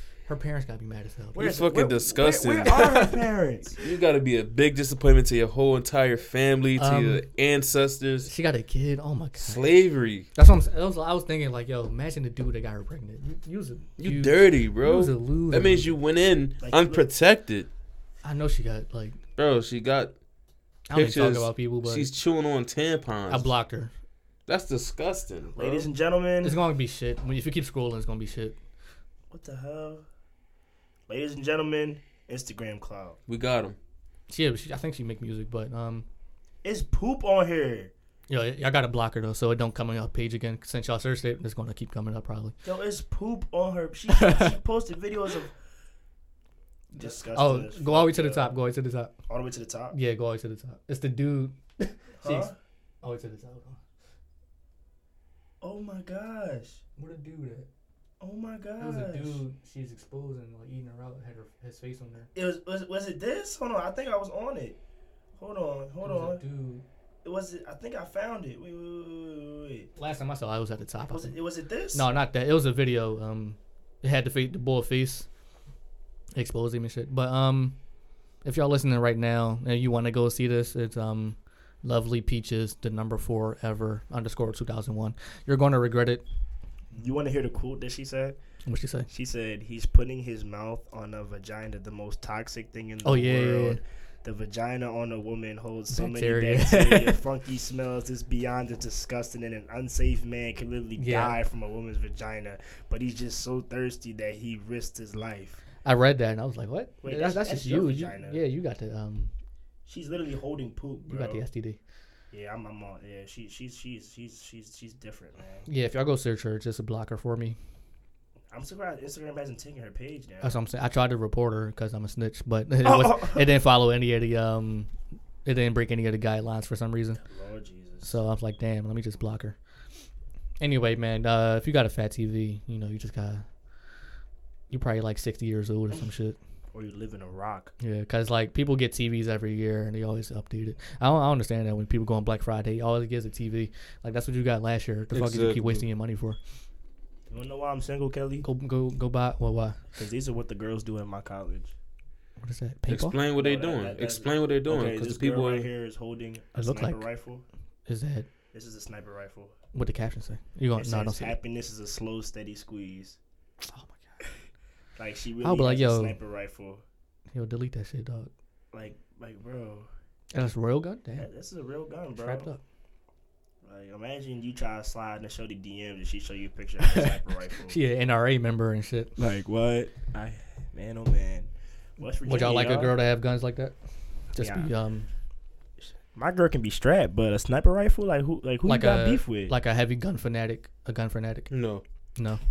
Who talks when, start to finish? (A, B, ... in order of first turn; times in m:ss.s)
0:00.3-0:01.6 A
0:01.4-0:03.2 B
0:01.4-0:03.8 C
0:02.6-0:03.1 A
0:03.8-0:08.3 B
0:06.8-0:07.2 A
0:08.2-0:09.6 A
0:09.4-0:10.3 B
0:10.3-0:15.9 A
0:14.0-0:17.7 B
0:16.6-0:17.0 C
0:18.2-0:19.2 A
0:19.4-0:20.1 B
0:20.9-0:22.1 A
0:20.9-0:23.5 B
0:23.3-0:23.9 A
0:24.5-0:25.8 B
0:25.6-0:26.6 C
0:26.4-0:28.6 A
0:29.3-0:30.0 C
0:31.1-0:33.2 C
0:33.3-0:33.8 B
0:34.3-0:36.0 A
0:36.6-0:37.9 C
0:38.3-0:42.6 A
0:42.6-0:45.5 C
0:44.2-0:44.5 A
0:46.9-0:49.1 A
0:47.0-0:48.5 C
0:49.3-0:50.0 C
0:49.9-0:53.8 A
0:52.2-0:52.5 C
0:55.6-0:56.8 C
0:57.0-0:57.7 A
0:58.2-0:59.4 C
0:58.8-1:02.3 A
1:02.3-1:04.8 C
1:05.4-1:06.4 C
1:06.0-1:06.8 A
1:07.2-1:09.9 C
1:10.0-1:11.3 A
1:11.1-1:12.0 C
1:11.9-1:15.3 A
1:16.3-1:17.8 A
1:18.4-1:26.2 A
1:26.9-1:28.4 C
1:28.6-1:29.1 A
1:29.1-1:45.6 C
1:33.0-1:33.8 A
1:35.9-1:37.2 A
1:41.0-1:41.4 A
1:45.8-1:49.3 A
1:47.0-1:48.4 C
1:49.9-1:51.4 C
1:51.1-1:51.8 A
1:52.3-1:55.6 C
1:55.7-1:57.6 A
1:58.5-2:00.6 C
2:00.4-2:04.9 A
2:02.8-2:03.4 C
2:05.4-2:07.2 A
2:07.2-2:08.1 C
2:08.0-2:09.6 A
2:10.6-2:13.4 A
2:14.7-2:16.4 A
2:16.7-2:17.7 C
2:17.8-2:26.4 A
2:25.1-2:25.8 B
2:27.3-2:28.4 C
2:28.4-2:29.8 A
2:29.9-2:31.7 C
2:32.4-2:33.2 A
2:32.9-2:35.7 B
2:33.3-2:37.4 C
2:36.5-2:37.0 A
2:37.9-2:38.3 A
2:38.5-2:39.5 C
2:39.7-2:41.4 A
2:40.8-2:43.2 C
2:43.6-2:44.2 A
2:45.0-2:46.8 C
2:45.4-2:46.2 A
2:47.3-2:48.3 A
2:48.7-2:49.9 C
2:50.3-2:51.3 A
2:51.2-2:52.5 C
2:52.2-2:52.6 A
2:53.6-2:57.8 C
2:56.8-2:57.1 A
2:57.6-2:59.2 A
2:59.2-3:03.0 C
3:02.2-3:03.7 A
3:04.3-3:05.1 A
3:04.4-3:04.7 C
3:06.1-3:09.5 C
3:08.6-3:11.5 A
3:11.5-3:11.8 B